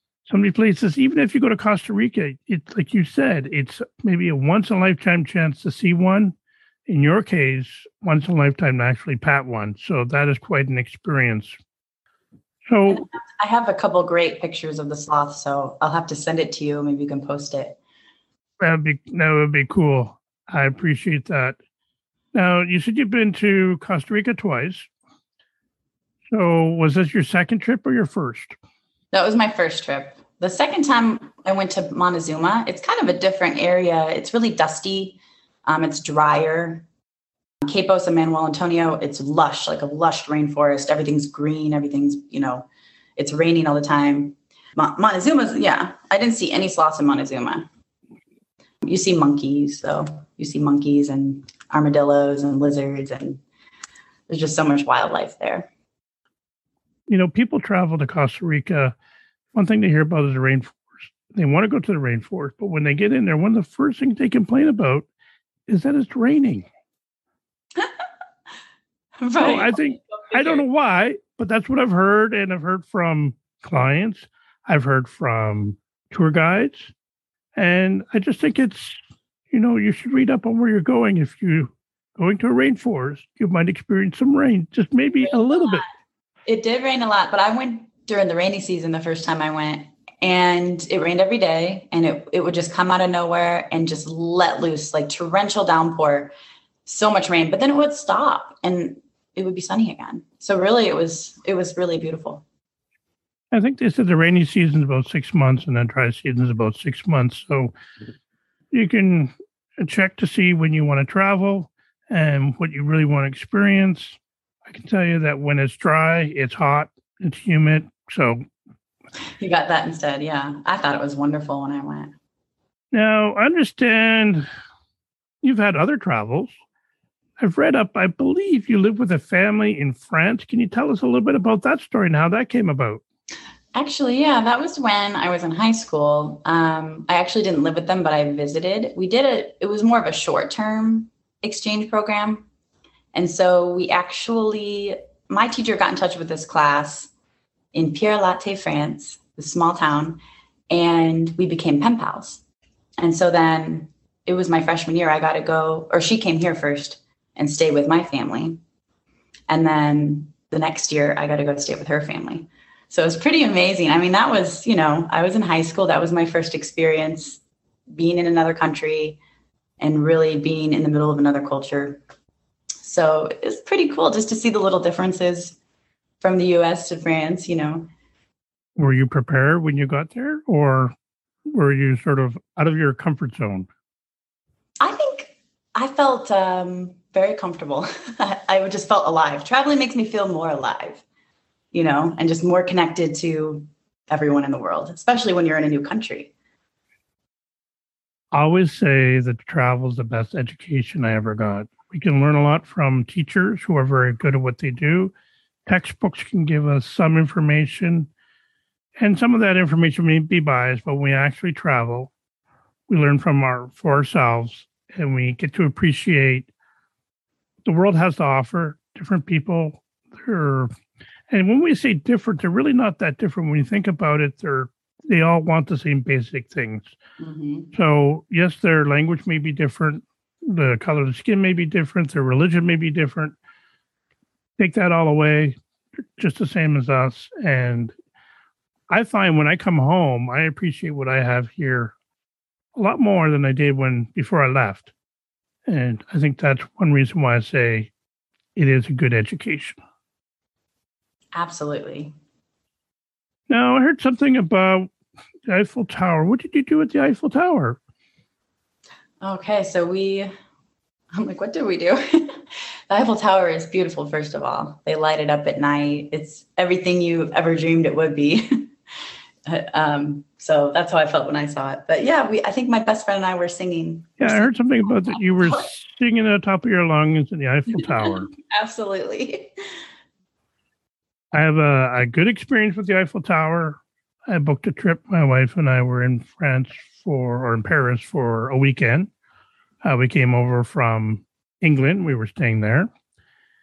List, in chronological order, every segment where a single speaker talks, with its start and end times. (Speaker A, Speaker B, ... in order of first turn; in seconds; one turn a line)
Speaker A: 0.2-6.3
Speaker A: 6.9-11.6
Speaker A: 12.7-13.0
Speaker B: 12.8-17.8
Speaker A: 18.6-21.6
Speaker A: 22.3-24.9
Speaker A: 26.3-28.6
Speaker B: 29.1-36.9
Speaker B: 37.6-47.6
Speaker B: 48.8-53.4
Speaker B: 54.3-55.7
Speaker A: 57.1-58.9
Speaker A: 59.5-65.1
Speaker A: 65.7-66.7
Speaker B: 69.2-70.6
Speaker A: 69.4-76.9
Speaker A: 77.5-79.0
Speaker A: 79.5-85.8
Speaker B: 85.2-85.8
Speaker B: 86.5-96.3
Speaker B: 96.8-102.4
Speaker A: 103.5-107.7
Speaker A: 108.7-118.4
Speaker B: 119.4-122.1
Speaker A: 122.9-124.4
Speaker A: 125.4-126.5
Speaker A: 127.4-133.0
Speaker B: 133.7-142.4
Speaker B: 143.1-147.1
Speaker B: 147.7-150.2
Speaker B: 150.7-152.4
Speaker B: 153.0-158.6
Speaker B: 159.5-169.2
Speaker B: 169.8-172.0
Speaker B: 172.8-175.6
Speaker B: 176.2-177.9
Speaker A: 178.8-180.9
Speaker A: 181.5-183.7
Speaker B: 184.8-191.0
Speaker B: 191.7-196.3
Speaker A: 198.3-205.1
Speaker A: 205.7-208.1
Speaker A: 209.0-212.1
Speaker A: 212.9-216.5
Speaker A: 217.7-220.7
Speaker A: 221.3-226.9
Speaker B: 227.2-227.7
Speaker A: 227.7-233.3
Speaker A: 234.6-235.6
Speaker A: 236.2-237.9
Speaker A: 238.9-241.9
Speaker A: 242.7-244.9
Speaker A: 245.7-247.9
Speaker A: 248.6-249.8
Speaker B: 251.3-252.1
Speaker A: 253.5-254.9
Speaker A: 255.5-257.8
Speaker B: 259.2-260.3
Speaker B: 261.1-262.3
Speaker B: 262.9-268.7
Speaker B: 269.5-275.7
Speaker A: 274.2-278.3
Speaker B: 277.8-279.5
Speaker A: 281.3-289.1
Speaker A: 289.8-292.9